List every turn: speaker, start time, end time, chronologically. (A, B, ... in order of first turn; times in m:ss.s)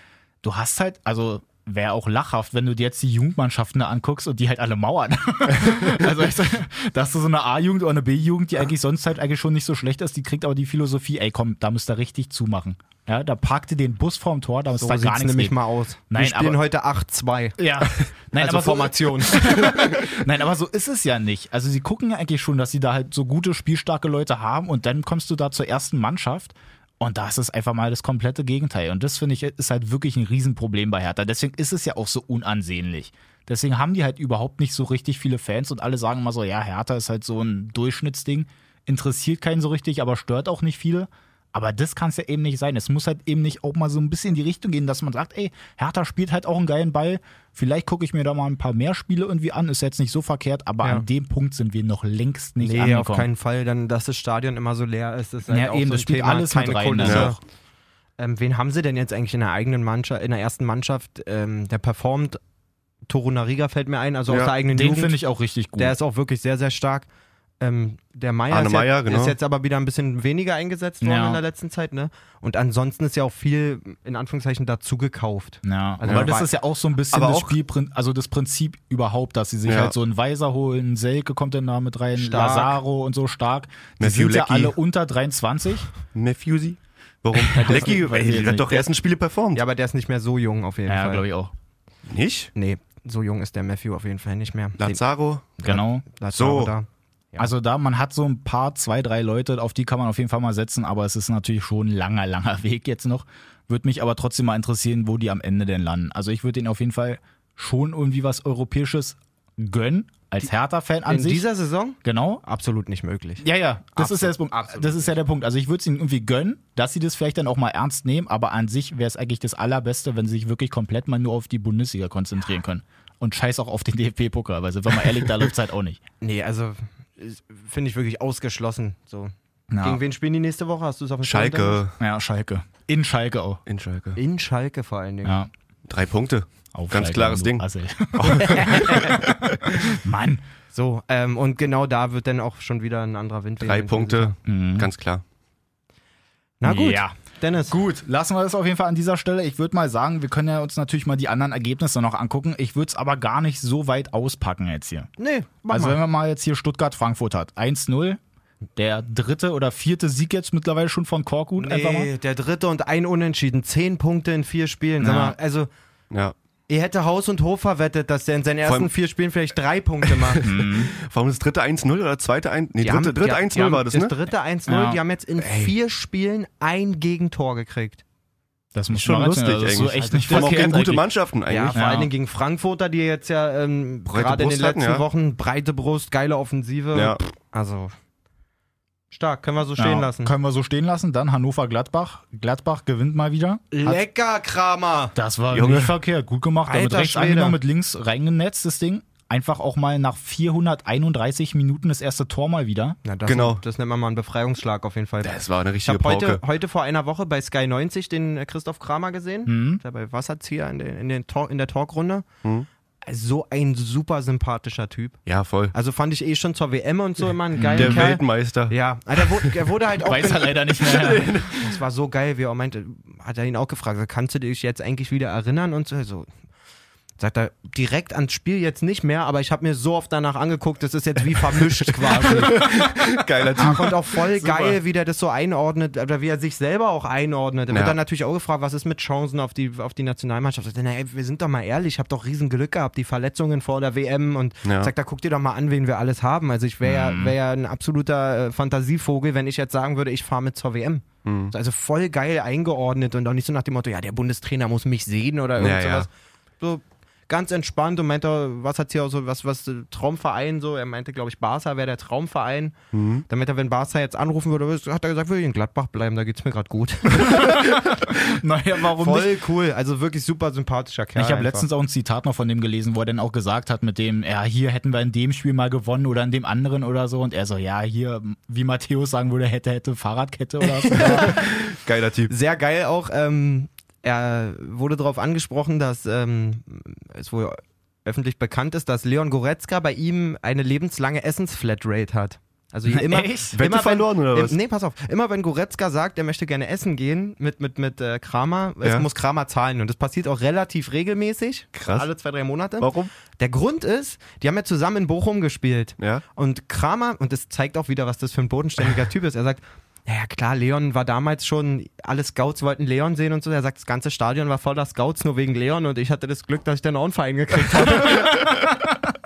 0:00.4-0:15.6 A
0:14.8-0:17.6 B
0:16.1-0:16.6 A
0:17.6-0:53.3 A
0:18.3-0:19.8 B
0:52.6-0:57.4 B
0:55.5-0:57.4 A
0:57.0-0:57.3 C
0:58.2-1:02.4 B
1:03.1-1:05.2 B
1:04.3-1:04.5 C
1:04.7-1:05.9 A
1:05.8-1:07.1 B
1:07.6-1:16.5 B
1:08.5-1:09.4 C
1:11.0-1:11.4 A
1:15.6-1:25.9 A
1:16.1-1:16.4 C
1:17.1-1:17.6 C
1:19.7-1:19.9 C
1:22.2-1:22.8 B
1:24.0-1:24.8 C
1:26.1-1:29.6 C
1:27.5-1:28.8 A
1:27.6-1:28.7 B
1:29.6-1:31.3 B
1:30.9-1:31.5 A
1:32.1-1:32.5 C
1:32.6-1:37.5 B
1:34.8-1:35.6 C
1:35.6-1:36.0 A
1:36.3-1:36.7 C
1:37.4-1:51.4 A
1:51.1-1:53.4 B
1:52.0-1:52.4 A
1:53.4-2:06.0 A
1:53.9-1:55.2 B
2:06.2-2:11.8 B
2:09.7-2:10.0 A
2:11.2-2:11.9 C
2:12.0-2:13.6 A
2:13.6-2:14.2 C
2:14.2-2:15.4 B
2:15.2-2:15.5 A
2:15.9-2:19.5 C
2:16.7-2:19.3 A
2:18.7-2:19.1 B
2:19.9-2:20.4 A
2:20.7-2:24.4 B
2:23.6-2:25.2 C
2:24.4-2:24.9 A
2:26.6-2:27.8 B
2:26.6-2:27.1 A
2:27.7-2:35.1 A
2:35.2-2:36.0 B
2:35.7-2:38.2 A
2:38.8-2:42.1 A
2:41.6-2:45.7 B
2:45.0-2:45.4 A
2:46.7-2:50.4 B
2:48.6-2:48.9 C
2:50.0-2:54.1 C
2:50.4-2:50.9 A
2:52.8-2:58.0 B
2:54.7-2:55.0 A
2:55.4-2:55.7 C
2:58.8-3:01.1 A
2:58.9-3:01.8 C
3:00.3-3:00.7 B
3:01.5-3:07.9 B
3:01.7-3:02.1 A
3:04.1-3:05.1 C
3:06.9-3:07.2 C
3:09.1-3:10.3 B
3:09.8-3:14.0 A
3:13.7-3:15.1 B
3:15.1-3:23.0 A
3:15.5-3:15.9 C
3:16.6-3:17.6 B
3:23.0-3:32.3 B
3:23.3-3:23.6 C
3:25.2-3:26.4 C
3:29.5-3:29.8 A
3:33.0-3:35.2 B
3:35.3-3:35.7 C
3:35.7-3:40.9 B
3:37.6-3:38.1 A
3:37.8-3:39.5 C
3:40.0-3:41.3 A
3:40.8-3:41.8 C
3:41.4-3:46.3 B
3:47.2-3:52.6 B
3:52.2-3:54.8 C
3:53.6-4:22.8 B
3:57.7-3:58.0 C
4:04.6-4:04.9 C
4:06.8-4:07.3 A
4:11.2-4:11.5 C
4:15.6-4:16.1 C
4:22.9-4:23.2 C
4:23.3-4:27.6 B
4:27.2-4:29.4 A
4:29.0-4:31.7 B
4:31.2-4:41.3 A
4:40.9-4:41.4 B
4:41.1-4:42.3 C
4:42.3-5:18.4 B
4:52.9-4:53.6 A
4:53.5-4:54.6 C
5:01.8-5:02.1 C
5:02.8-5:03.1 C
5:18.1-5:18.9 A